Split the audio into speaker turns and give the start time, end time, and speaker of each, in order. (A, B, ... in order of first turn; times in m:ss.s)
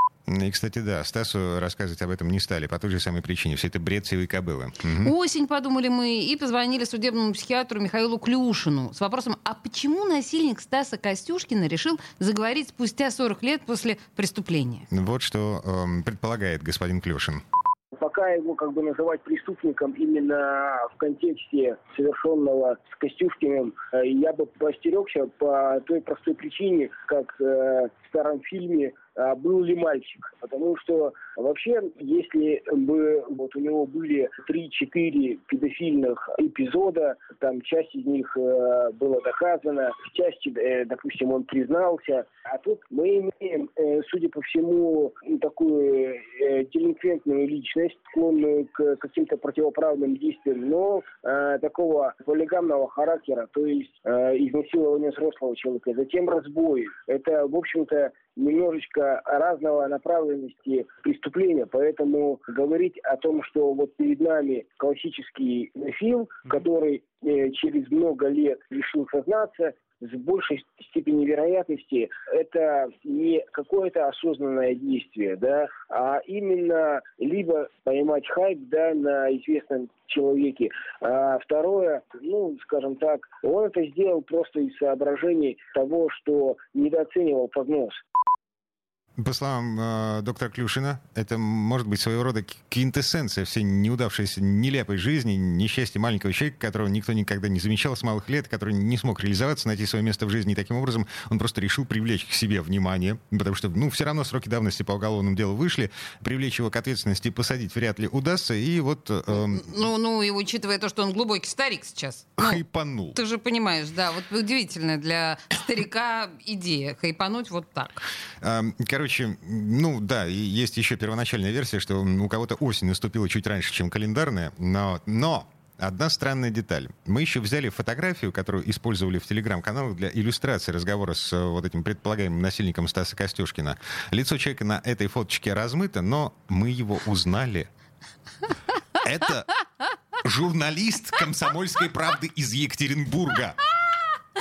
0:00.3-0:05.1 A
0:05.0-0:14.8 B
0:14.9-0:17.4 A
0:17.9-1:28.0 C
1:29.2-1:49.6 A
1:49.3-1:52.6 B
1:52.4-1:53.2 A
1:53.2-1:58.0 B
1:58.4-2:17.7 A
2:19.0-2:19.5 A
2:20.2-2:23.6 A